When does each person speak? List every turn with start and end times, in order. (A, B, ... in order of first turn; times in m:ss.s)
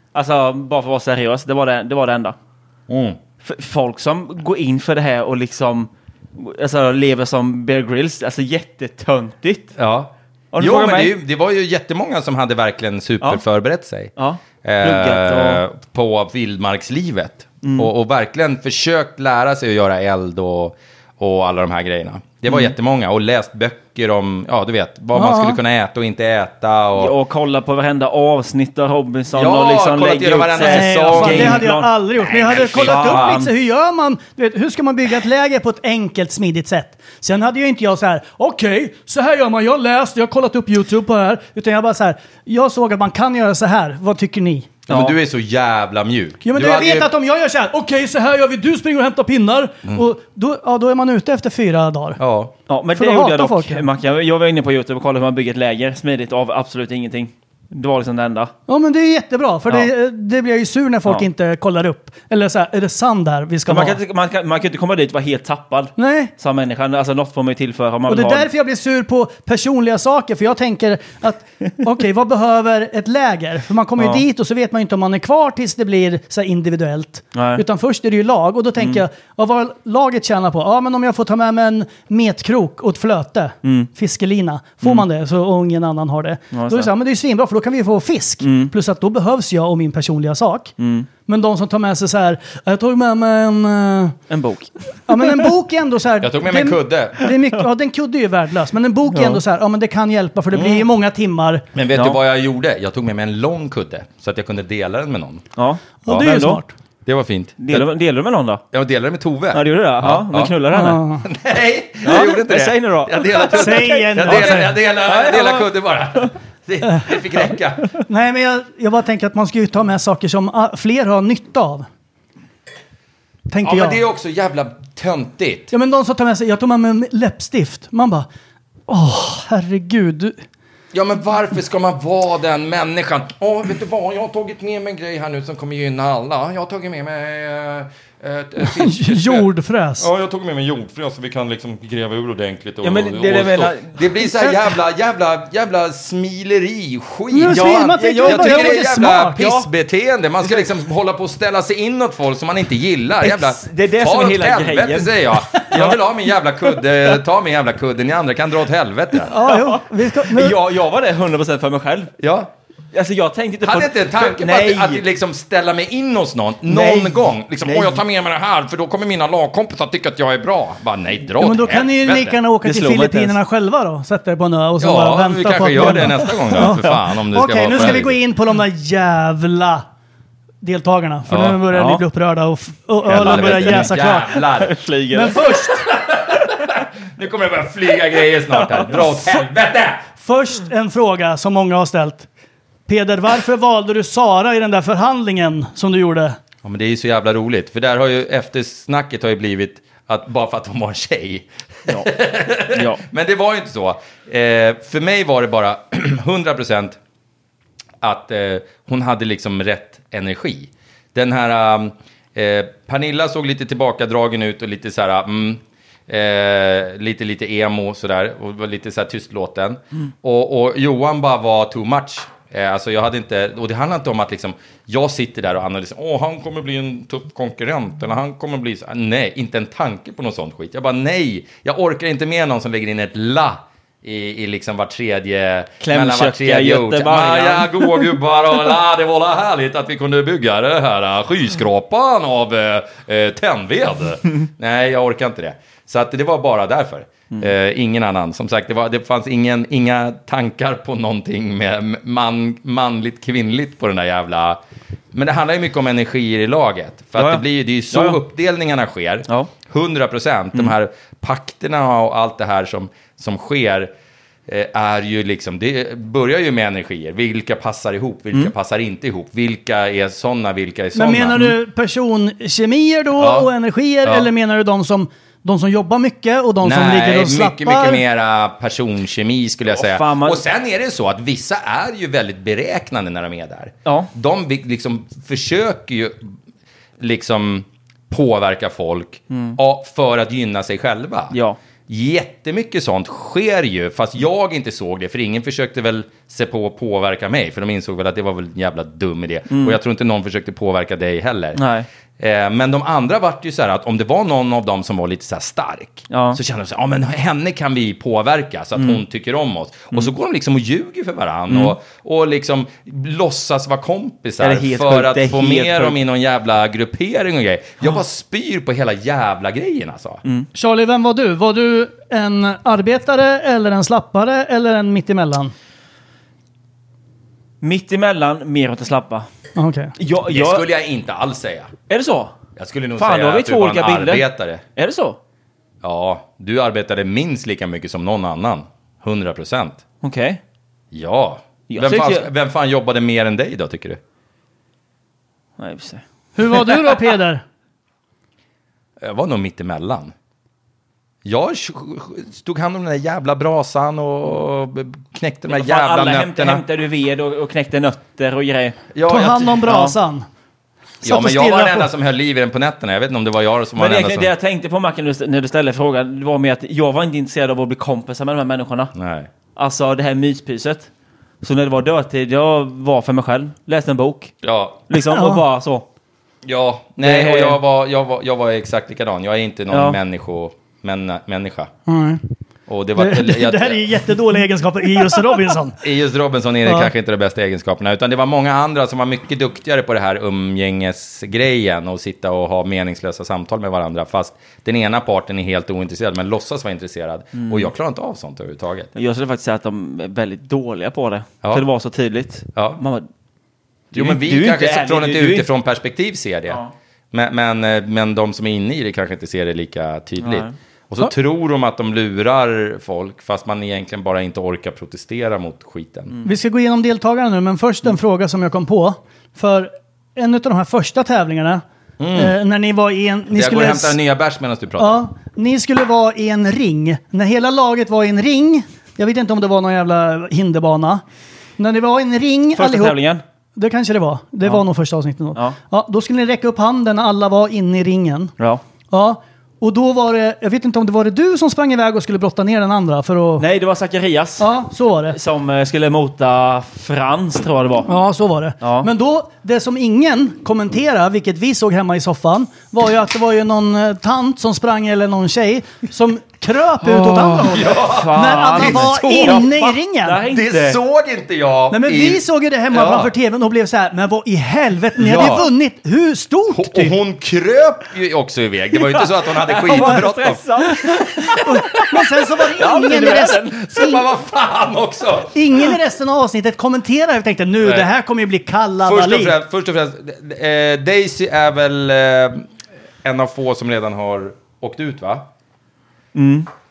0:00.1-0:02.4 A
0:02.9-0:03.2 B
0:03.4-0:09.7 A
0:09.8-0:14.1 B
0:10.5-0:11.1 A
0:14.2-0:15.6 A
0:14.6-0:27.1 B
0:17.6-0:17.9 A
0:22.5-0:22.7 A
0:25.1-0:25.6 C
0:27.0-0:33.5 A
0:29.3-0:31.7 B
0:30.6-0:44.7 C
0:32.2-0:33.4 B
0:44.9-0:45.2 A
0:44.9-0:47.1 B
0:46.4-0:52.2 C
0:52.2-0:52.5 B
0:52.7-0:58.5 A
0:52.9-0:53.8 C
0:58.7-1:04.0 C
1:03.7-1:08.5 A
1:06.0-1:06.3 C
1:08.1-1:30.7 C
1:14.0-1:14.2 A
1:17.3-1:17.6 A
1:23.6-1:23.9 A
1:26.5-1:26.9 A
1:28.4-1:28.7 A
1:30.8-1:31.1 A
1:31.2-1:34.2 C
1:34.3-1:35.4 A
1:35.1-1:41.6 C
1:36.2-1:37.2 B
1:39.1-1:39.4 A
1:40.5-1:40.9 B
1:41.7-1:45.4 B
1:41.9-1:42.2 A
1:45.6-1:46.6 A
1:46.0-1:46.7 C
1:47.0-1:47.9 B
1:47.6-1:48.6 A
1:48.7-1:50.5 B
1:49.5-1:51.0 A
1:50.7-1:51.2 C
1:51.2-1:57.9 B
1:52.0-1:55.6 A
1:53.5-1:55.3 C
1:58.1-2:01.8 C
2:03.5-2:04.0 C
2:03.6-2:05.7 B
2:05.7-2:08.3 C
2:08.9-2:10.4 C
2:10.9-2:39.3 B
2:18.6-2:20.1 C
2:22.8-2:24.7 A
2:27.3-2:29.5 C
2:27.5-2:29.6 A
2:33.2-2:36.0 A
2:39.3-2:40.6 C
2:39.4-2:42.1 A
2:42.2-2:42.5 B
2:42.9-2:45.0 A
2:43.6-2:52.4 B
2:46.7-2:48.0 A
2:51.4-2:59.8 C
2:52.6-2:53.4 A
2:54.8-2:58.2 B
3:00.6-3:04.4 C
3:01.3-3:01.6 B
3:01.7-3:02.0 A
3:03.0-3:04.8 B
3:03.2-3:05.6 A
3:05.1-3:05.9 C
3:05.7-3:10.0 B
3:08.6-3:09.2 A
3:10.2-3:12.3 C
3:12.9-3:16.4 C
3:16.6-3:27.0 B
3:22.7-3:23.0 A
3:28.0-4:14.6 B
3:55.8-3:58.1 A
4:15.1-4:23.9 B
4:17.2-4:18.2 A
4:24.5-4:31.4 B
4:30.9-4:38.0 C
4:33.2-4:33.5 B
4:34.0-4:34.3 B
4:36.6-4:46.3 B
4:39.7-4:40.4 A
4:47.0-5:01.6 B
4:49.3-4:49.6 A
4:51.3-4:51.6 A
4:59.5-4:59.8 A
5:01.5-5:01.9 A
5:02.2-5:20.2 B
5:06.1-5:06.4 A
5:08.8-5:09.0 A
5:11.5-5:11.8 A
5:14.4-5:16.0 A
5:20.5-5:25.5 C
5:27.6-5:29.3 A
5:29.6-5:29.9 C
5:30.0-5:30.6 A
5:30.3-5:31.7 B
5:31.9-5:32.3 A
5:32.6-5:34.6 B
5:33.0-5:35.2 A
5:35.8-5:39.8 B
5:40.0-5:40.4 A
5:40.9-5:44.0 B
5:41.7-5:42.3 A
5:45.6-5:46.7 A
5:46.4-5:47.4 C
5:49.0-5:50.1 B
5:51.2-5:56.6 B
5:55.5-5:58.8 A
5:58.9-5:59.6 B
5:59.1-6:00.2 C
5:59.6-5:59.9 A
6:01.0-6:04.3 B
6:01.0-6:01.9 C
6:03.8-6:08.9 A
6:08.9-6:09.3 B
6:09.6-6:10.9 A
6:11.4-6:14.3 A
6:14.4-6:14.8 B
6:14.9-6:15.8 A
6:15.1-6:15.4 C
6:16.4-6:21.7 B
6:17.0-6:17.6 A
6:19.7-6:20.0 A
6:21.9-6:22.2 C
6:22.7-6:23.8 B
6:23.0-6:25.8 C
6:25.8-6:38.9 B
6:26.6-6:26.9 C
6:37.4-6:37.7 A
6:38.9-6:43.1 A
6:42.5-6:42.8 B
6:43.9-6:46.6 B
6:43.9-6:45.5 A
6:47.1-6:56.2 B
6:50.2-6:50.5 A
6:56.2-7:01.6 C
7:02.0-7:02.4 B
7:02.1-7:04.0 C
7:03.3-7:05.0 B
7:04.8-7:11.0 C
7:11.6-7:13.0 C
7:12.6-7:13.2 A
7:13.5-7:18.3 C
7:18.9-7:23.4 C
7:23.4-7:24.5 A
7:24.4-7:25.2 C
7:25.1-7:27.9 A
7:27.9-7:40.2 C
7:28.6-7:28.9 A
7:36.8-7:40.8 A
7:37.4-7:39.6 B
7:40.2-7:43.1 B
7:41.7-7:46.9 C
7:45.0-7:45.4 B
7:46.5-7:51.4 B
7:49.2-7:51.9 A
7:51.4-7:54.0 C
7:52.4-7:53.6 A
7:53.6-7:55.3 B
7:55.3-7:59.4 C
7:57.6-7:57.9 B
7:58.8-8:02.5 B
8:03.0-8:05.3 B
8:06.1-8:06.5 A